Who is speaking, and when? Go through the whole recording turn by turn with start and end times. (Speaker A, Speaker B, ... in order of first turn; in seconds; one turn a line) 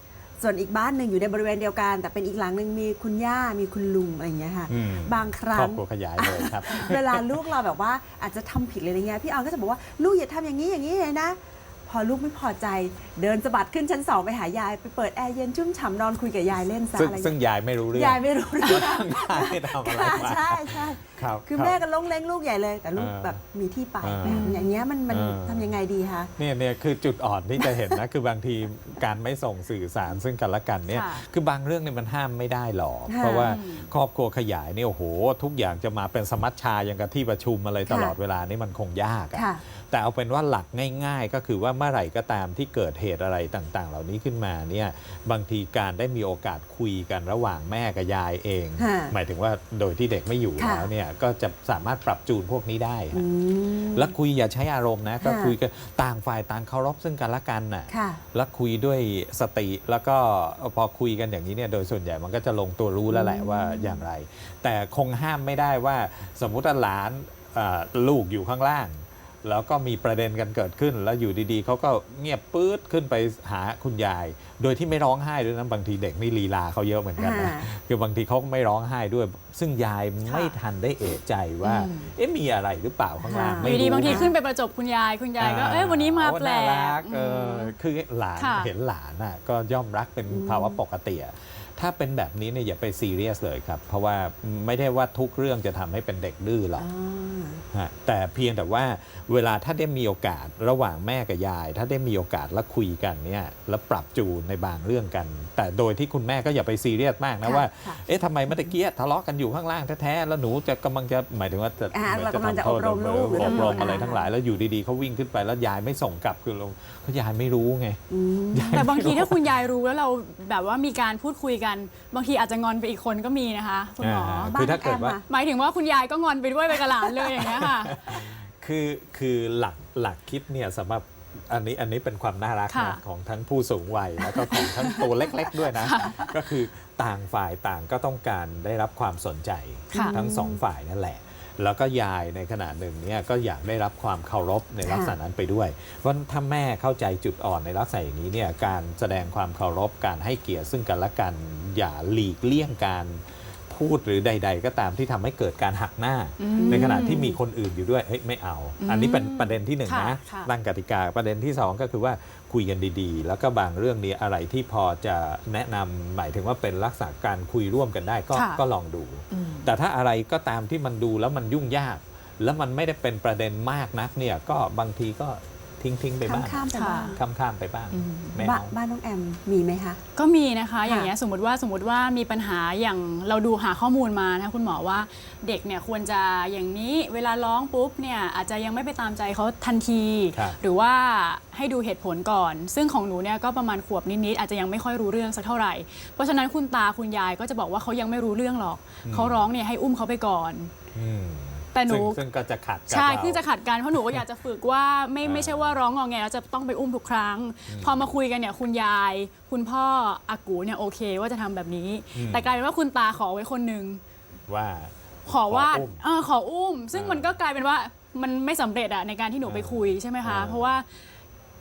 Speaker A: 0.4-17.3
Speaker B: 4.7-7.4
Speaker B: 16.9-21.8
Speaker A: 17.9-26.3
Speaker B: 22.9-23.4
Speaker B: 24.0-24.5
Speaker C: 24.2-24.8
Speaker B: 25.1-25.8
Speaker B: 26.4-53.2
Speaker C: 30.9-31.2
Speaker A: 33.1-33.5
Speaker C: 33.4-33.9
Speaker A: 37.9-38.1
Speaker A: 39.3-39.6
Speaker A: 48.8-49.1
Speaker A: 50.6-50.9
Speaker A: 53.1-54.1
Speaker B: 53.9-84.3
Speaker A: 55.2-55.6
Speaker A: 57.9-58.2
Speaker A: 63.1-64.0
Speaker A: 77.2-77.7
Speaker C: 80.2-80.5
Speaker C: 81.6-82.1
Speaker A: 83.2-84.3
Speaker C: 83.6-87.7
Speaker B: 85.4-96.9
Speaker C: 88.4-88.7
Speaker A: 90.3-90.8
Speaker A: 96.8-97.6
Speaker B: 97.7-119.4
Speaker A: 107.4-108.5
Speaker A: 111.9-114.3
Speaker C: 113.4-114.0
Speaker A: 118.1-119.1
Speaker C: 118.7-124.6
Speaker B: 124.0-125.2
Speaker A: 124.5-125.3
Speaker C: 125.3-128.3
Speaker B: 127.4-178.7
Speaker C: 132.7-133.0
Speaker C: 134.5-135.0
Speaker C: 135.7-136.3
Speaker C: 139.9-140.2
Speaker A: 139.9-140.6
Speaker A: 144.8-145.2
Speaker C: 156.4-157.3
Speaker A: 156.6-157.4
Speaker C: 158.8-160.5
Speaker C: 168.3-168.6
Speaker C: 169.3-169.7
Speaker A: 176.2-177.2
Speaker C: 176.7-177.2
Speaker C: 177.9-178.4
Speaker A: 178.4-180.0
Speaker C: 180.2-200.7
Speaker A: 180.9-181.1
Speaker B: 190.3-190.6
Speaker B: 199.1-199.5
Speaker B: 200.9-203.4
Speaker C: 201.7-202.2
Speaker C: 202.9-214.0
Speaker B: 205.2-205.8
Speaker B: 207.7-208.1
Speaker B: 212.1-212.6
Speaker B: 214.5-216.0
Speaker C: 215.3-220.9
Speaker B: 216.9-217.3
Speaker B: 219.4-220.7